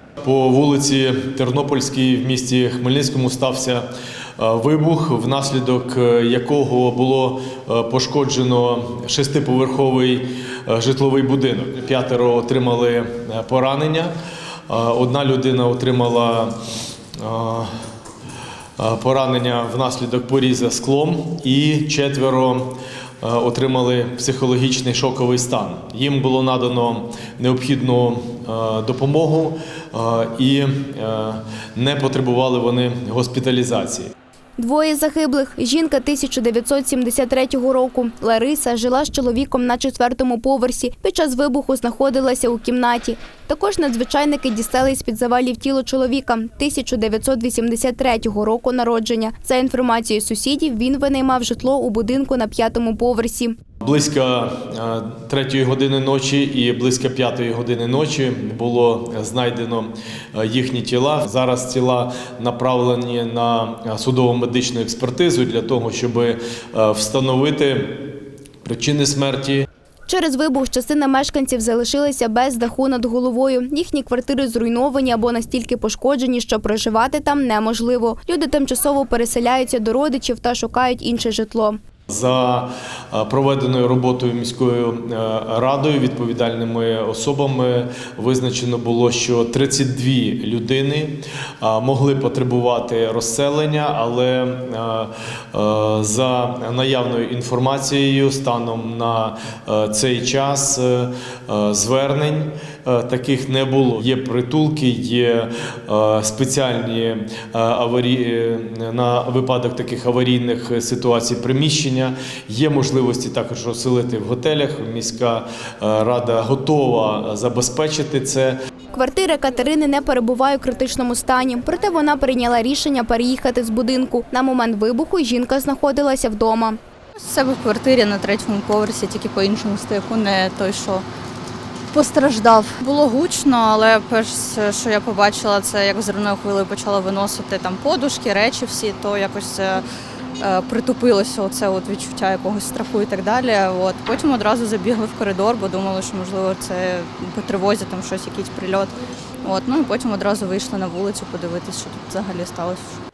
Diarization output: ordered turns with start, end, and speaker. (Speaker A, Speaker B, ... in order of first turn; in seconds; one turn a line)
Speaker A: 0.2-3.9
Speaker A: 4.4-14.1
Speaker A: 14.7-16.6
Speaker A: 17.2-17.7
Speaker A: 18.8-34.1
Speaker B: 34.6-53.6
Speaker A: 53.8-68.1
Speaker A: 68.6-69.7
Speaker B: 70.1-81.8
Speaker A: 82.1-118.6
Speaker B: 118.9-126.8
Speaker C: 127.2-131.1
Speaker C: 131.9-139.8
Speaker C: 140.4-153.0